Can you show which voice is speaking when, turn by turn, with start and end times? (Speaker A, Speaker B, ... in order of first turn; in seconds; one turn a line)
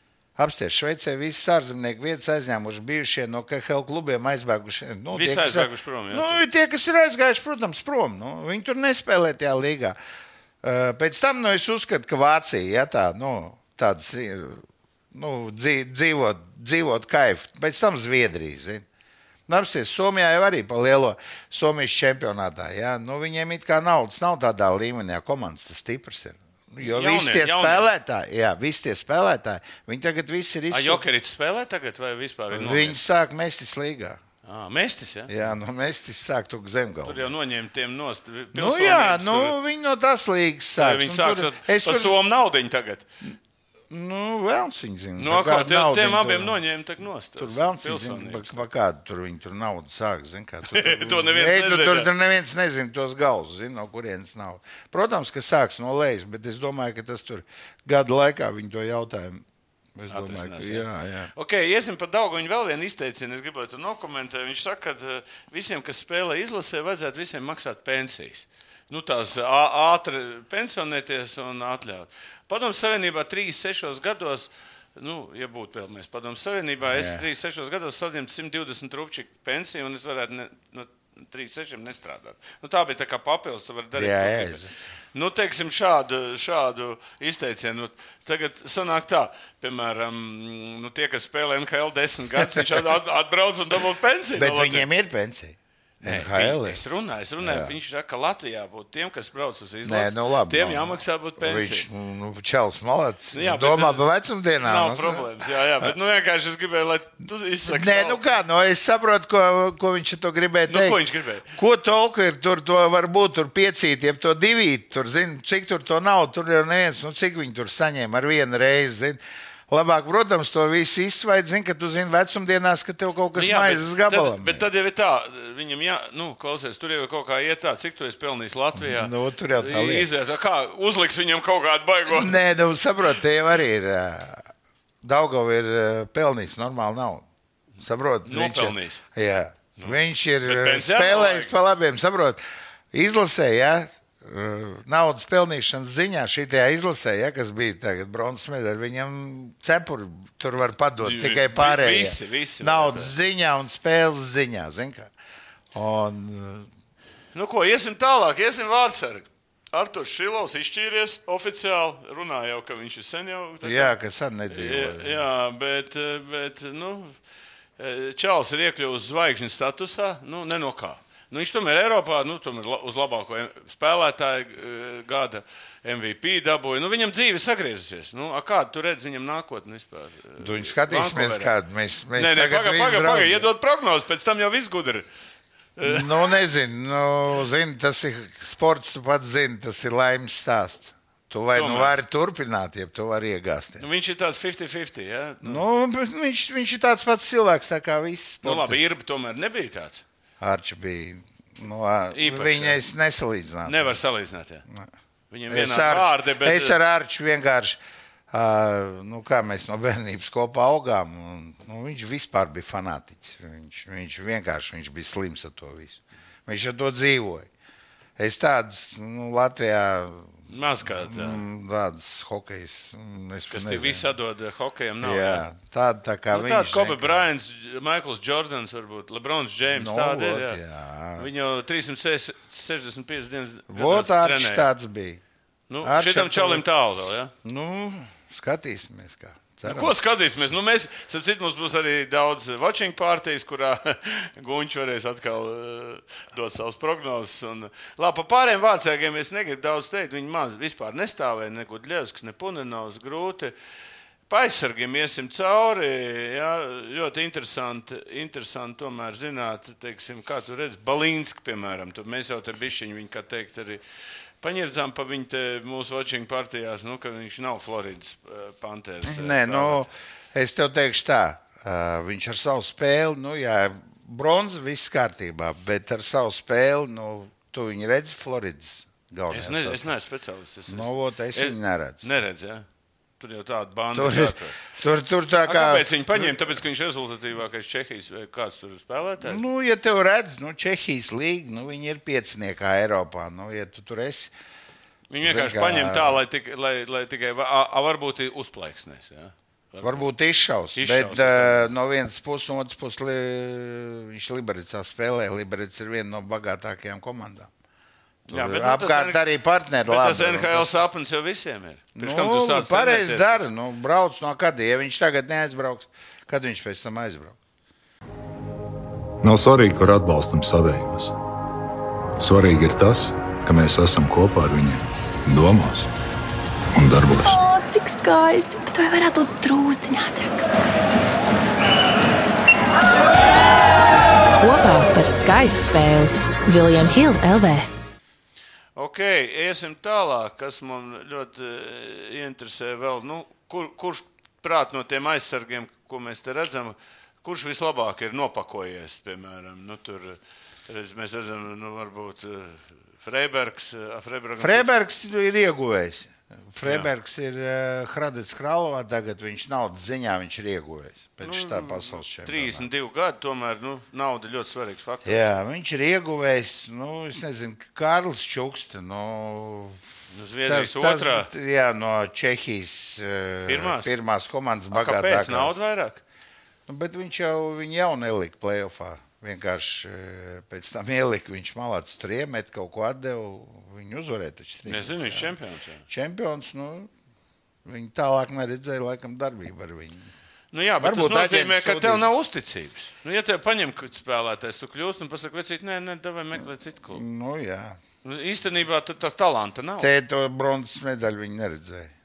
Speaker A: 0.4-10.0
Speaker B: 5.1-6.4
Speaker A: 10.6-18.9
Speaker A: 19.5-31.0
Speaker B: 26.8-27.9
Speaker B: 30.7-33.0
Speaker A: 32.5-34.2
Speaker B: 34.5-35.3
Speaker A: 35.3-37.3
Speaker B: 37.0-39.6
Speaker A: 38.5-42.2
Speaker B: 40.8-43.1
Speaker A: 43.9-46.6
Speaker B: 45.2-48.7
Speaker A: 47.4-59.5
Speaker B: 50.7-52.1
Speaker A: 60.0-61.3
Speaker B: 60.1-94.9
Speaker A: 76.8-77.2
Speaker A: 84.0-84.8
Speaker A: 94.4-96.8
Speaker B: 96.0-101.8
Speaker A: 97.4-97.8
Speaker A: 99.8-105.9
Speaker B: 103.3-104.0
Speaker B: 104.6-108.2
Speaker A: 107.7-111.0
Speaker B: 110.7-111.5
Speaker A: 111.5-124.7
Speaker B: 123.3-132.4
Speaker A: 128.8-130.1
Speaker A: 132.1-134.4
Speaker A: 135.0-137.3
Speaker A: 137.8-142.4
Speaker B: 138.2-139.0
Speaker B: 139.8-141.5
Speaker A: 142.9-155.1
Speaker B: 151.0-153.1
Speaker A: 155.7-156.7
Speaker B: 157.3-163.9
Speaker A: 163.6-165.2
Speaker B: 164.5-167.2
Speaker B: 167.8-181.5
Speaker A: 180.4-183.5
Speaker B: 182.2-185.1
Speaker B: 185.8-186.3
Speaker A: 185.8-193.8
Speaker B: 191.5-192.0
Speaker B: 193.8-195.6
Speaker A: 195.4-198.9
Speaker B: 198.4-200.0
Speaker A: 200.4-204.0
Speaker B: 202.1-202.8
Speaker B: 203.7-204.6
Speaker B: 205.3-206.8
Speaker A: 205.5-207.8
Speaker A: 208.3-217.5
Speaker A: 218.2-224.1
Speaker B: 220.5-221.4
Speaker B: 223.5-225.4
Speaker A: 225.0-227.2
Speaker B: 226.3-230.6
Speaker A: 229.7-231.3
Speaker B: 231.2-234.7
Speaker A: 233.7-235.2
Speaker B: 235.7-237.3
Speaker A: 235.8-236.7
Speaker A: 237.4-239.9
Speaker B: 239.6-253.5
Speaker B: 254.3-263.8
Speaker B: 264.4-269.9
Speaker A: 269.0-279.9
Speaker B: 279.3-282.6
Speaker A: 280.7-282.0
Speaker B: 283.2-284.6
Speaker A: 283.9-286.6
Speaker B: 285.5-289.4
Speaker A: 289.2-294.3
Speaker B: 295.1-300.1
Speaker A: 295.2-296.2
Speaker A: 299.8-307.5
Speaker B: 300.8-301.7
Speaker B: 308.3-309.2
Speaker A: 308.3-310.8
Speaker B: 309.9-313.4
Speaker A: 311.9-317.4
Speaker C: 319.2-321.1
Speaker C: 322.2-325.9
Speaker C: 326.7-327.4
Speaker D: 327.2-330.4
Speaker E: 334.3-337.7
Speaker B: 338.8-354.7
Speaker A: 354.4-362.7
Speaker B: 356.6-356.9
Speaker B: 361.2-365.4
Speaker A: 365.1-369.8
Speaker B: 370.1-371.3
Speaker A: 370.4-375.6
Speaker B: 373.5-373.9
Speaker B: 374.7-376.0
Speaker A: 376.7-385.4
Speaker B: 384.6-385.8
Speaker A: 385.9-386.9
Speaker A: 387.6-390.1
Speaker B: 390.5-397.0
Speaker A: 390.8-392.1
Speaker A: 396.9-397.8
Speaker B: 398.0-399.9
Speaker A: 399.8-401.9